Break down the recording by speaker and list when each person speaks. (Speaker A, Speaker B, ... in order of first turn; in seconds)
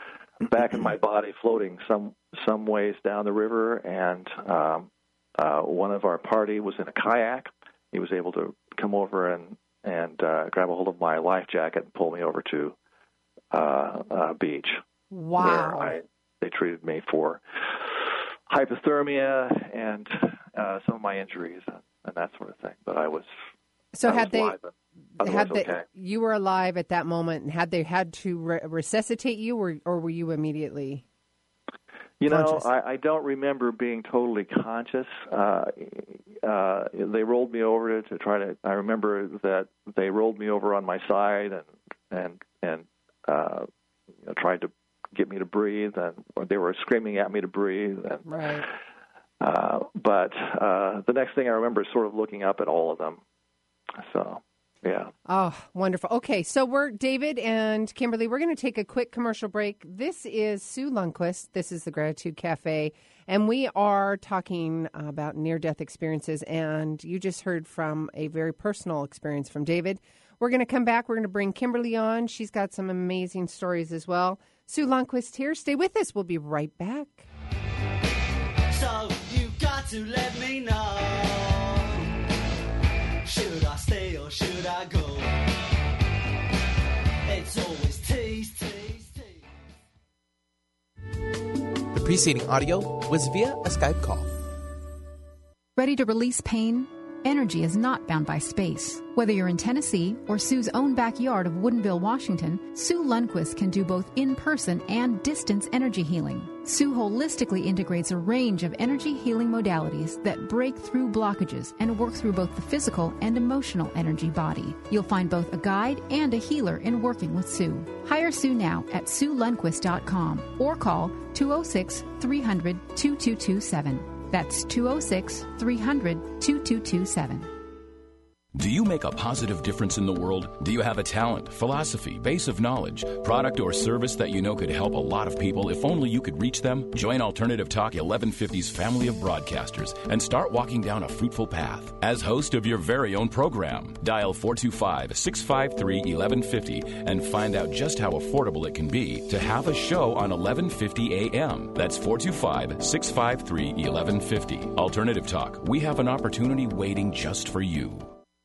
Speaker A: 0.4-12.7, 13.5-14.8, 15.4-23.2, 24.0-24.7, 25.2-25.8, 32.2-43.7, 44.2-48.6, 49.4-53.2, 54.0-55.1
Speaker B: 15.1-16.0, 23.9-24.6, 25.2-31.0, 32.3-32.7, 48.2-48.6, 55.2-77.3
Speaker C: 78.7-82.1, 83.2-85.5, 87.3-89.4
Speaker D: 91.9-94.3
Speaker E: 95.8-127.5
Speaker F: 128.5-158.1